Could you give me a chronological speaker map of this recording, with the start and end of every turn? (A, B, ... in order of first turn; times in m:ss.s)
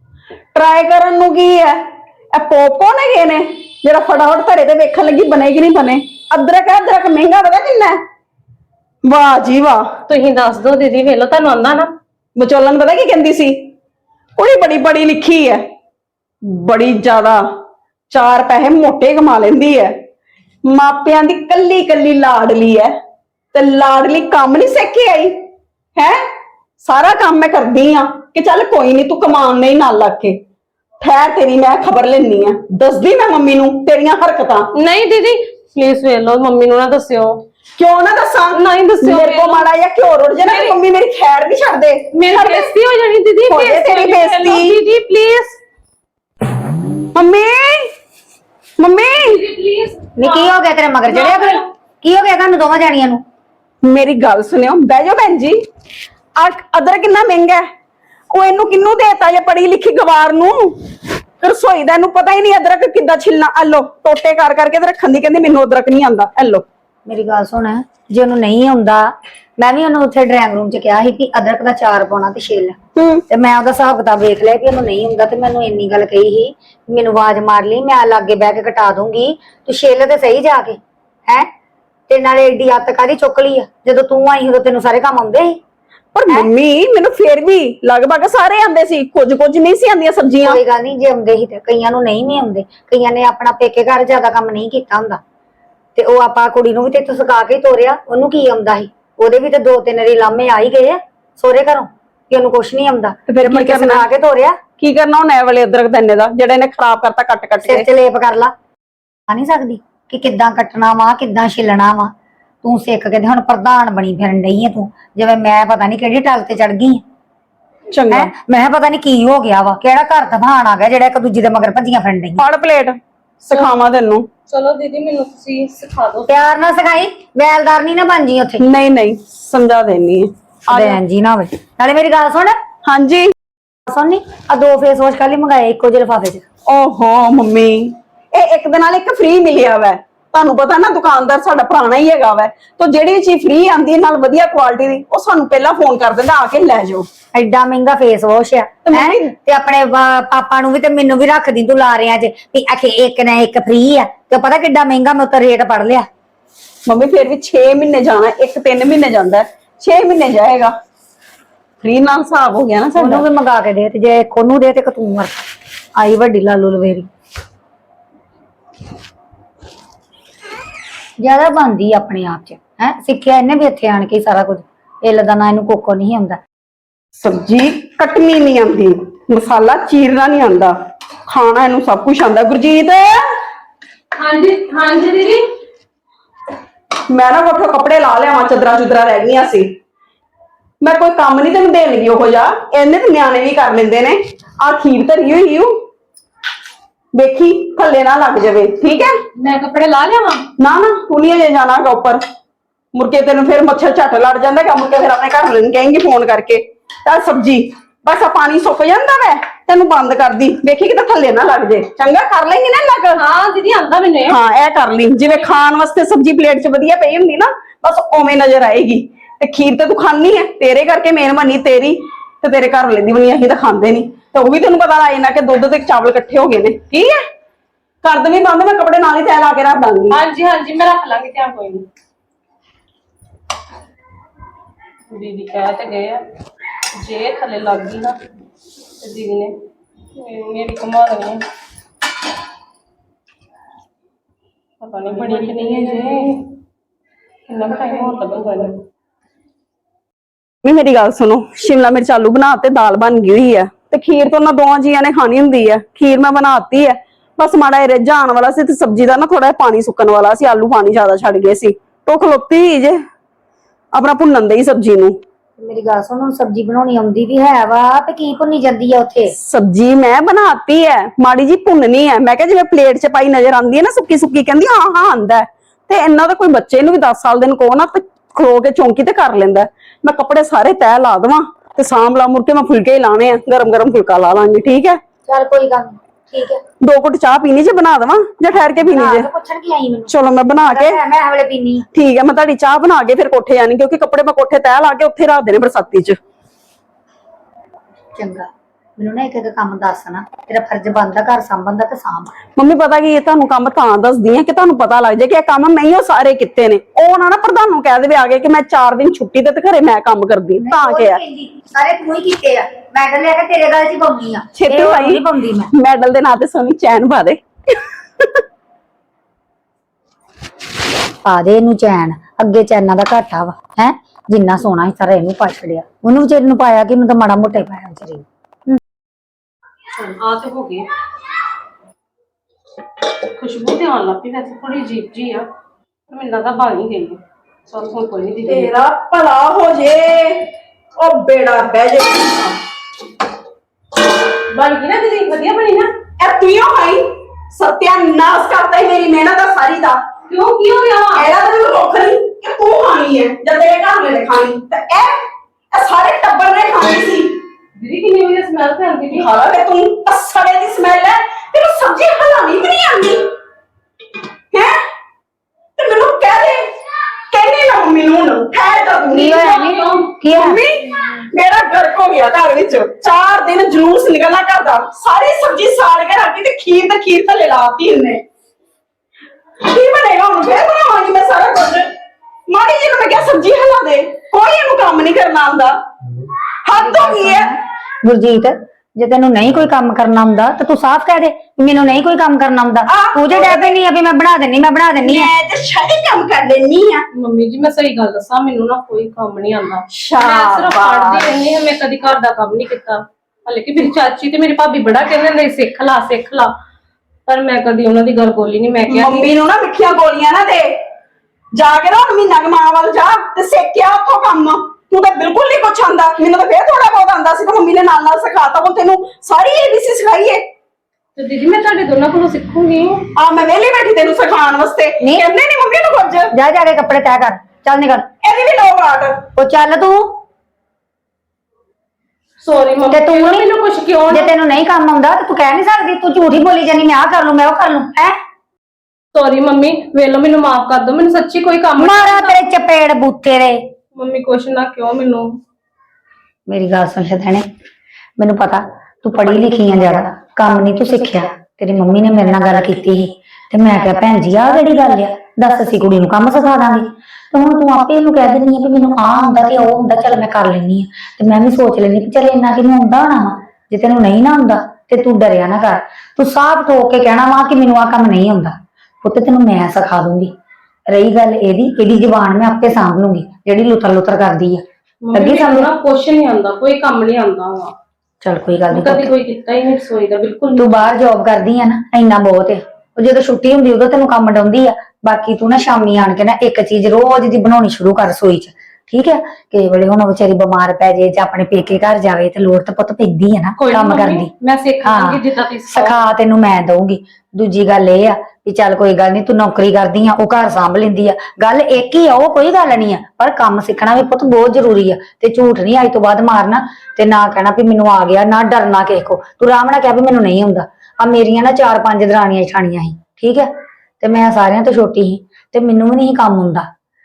0:00.5-0:08.0 A
0:09.0-0:09.8 A
0:10.1-0:11.9 B
0:12.4-0:13.7 A
0:14.4-0:15.6 A
0:16.4-0:17.4 A
0:18.1-0:19.9 A
0:20.6-0:22.9 A
0:23.5-0:25.4 A
0:26.0-0:26.2 A
0:26.8-0:30.4 A
0:31.0-0:34.7 A
0:34.8-0:37.4 B
0:37.8-0:42.7 A
0:38.5-0:39.7 B
0:40.4-0:40.8 B
0:42.1-0:45.6 B
0:43.5-0:44.8 A
0:47.2-0:47.9 A
0:48.8-0:49.5 A
0:49.2-0:51.6 B
0:50.2-0:53.2 C
0:53.8-0:55.6 A
0:56.4-0:57.7 A
0:58.3-1:00.8 A
1:01.4-1:06.7 A
1:07.1-1:12.8 C
1:13.0-1:13.2 A
1:13.3-1:21.5 C
1:22.1-1:25.6 C
1:26.2-1:30.6 A
1:30.4-1:35.2 C
1:36.0-1:44.6 C
1:43.3-1:44.1 A
1:44.8-1:47.9 A
1:47.6-1:48.5 C
1:49.3-1:52.1 C
1:52.6-1:57.0 C
1:57.9-1:58.3 A
1:58.1-2:02.4 C
2:02.4-2:04.3 A
2:04.5-2:06.4 B
2:06.3-2:08.6 C
2:08.6-2:11.0 A
2:10.7-2:12.6 C
2:12.8-2:13.3 A
2:13.9-2:16.4 C
2:16.7-2:27.1 A
2:27.3-2:36.1 C
2:28.9-2:29.3 A
2:36.9-2:40.7 A
2:41.8-2:43.3 A
2:43.0-2:45.4 C
2:46.0-2:47.1 C
2:51.2-2:56.4 C
2:57.2-3:00.7 A
3:01.3-3:03.2 A
3:04.2-3:05.4 B
3:07.1-3:09.7 A
3:10.8-3:15.7 A
3:17.1-3:19.2 A
3:18.9-3:20.4 B
3:20.6-3:22.2 A
3:22.9-3:33.2 A
3:33.2-3:34.4 B
3:34.3-3:47.1 A
3:48.0-3:50.2 A
3:50.1-3:51.9 B
3:55.1-3:56.2 B
3:57.0-3:58.2 B
3:59.0-3:59.5 B
4:00.2-4:01.4 B
4:04.8-4:06.4 B
4:07.5-4:08.8 B
4:10.6-4:23.0 A
4:23.9-4:25.2 A
4:25.6-4:29.3 C
4:29.3-4:45.0 A
4:45.3-4:46.6 C
4:46.8-4:49.3 A
4:48.8-4:50.1 C
4:50.1-4:51.0 A
4:50.6-4:51.9 C
4:51.9-4:56.2 A
4:58.2-5:02.4 C
5:02.6-5:11.2 A
5:10.6-5:15.7 C
5:14.6-5:18.4 A
5:21.2-5:28.2 C
5:30.0-5:30.8 B
5:33.4-5:35.4 B
5:36.1-5:38.7 B
5:38.5-5:40.5 A
5:41.0-5:42.6 A
5:44.5-5:45.9 B
5:46.2-5:50.0 A
5:50.3-5:51.3 B
5:51.2-5:57.4 A
5:57.8-5:59.3 B
5:59.2-6:03.3 A
6:05.8-6:06.6 A
6:07.3-6:18.2 A
6:09.1-6:10.6 C
6:09.7-6:10.1 B
6:19.6-6:21.9 A
6:22.5-6:25.7 A
6:26.6-6:27.5 A
6:26.8-6:35.3 C
6:32.9-6:33.8 A
6:35.0-6:37.1 A
6:37.1-6:46.5 B
6:39.9-6:41.3 A
6:47.3-6:49.3 B
6:48.9-6:50.7 A
6:51.5-7:00.4 A
7:01.2-7:03.0 B
7:03.2-7:06.3 A
7:06.3-7:08.1 C
7:08.2-7:09.2 A
7:09.4-7:10.1 C
7:12.4-7:14.3 B
7:12.9-7:13.5 C
7:14.1-7:18.1 C
7:19.1-7:22.4 B
7:21.8-7:23.6 C
7:24.0-7:25.3 B
7:26.5-7:27.4 C
7:28.2-7:50.3 C
7:50.9-7:54.6 C
7:55.0-7:57.7 B
7:55.1-7:55.7 C
7:58.2-7:59.1 C
7:58.7-8:00.9 B
8:00.6-8:14.3 C
8:13.6-8:16.1 B
8:14.8-8:33.5 C
8:34.0-8:36.7 C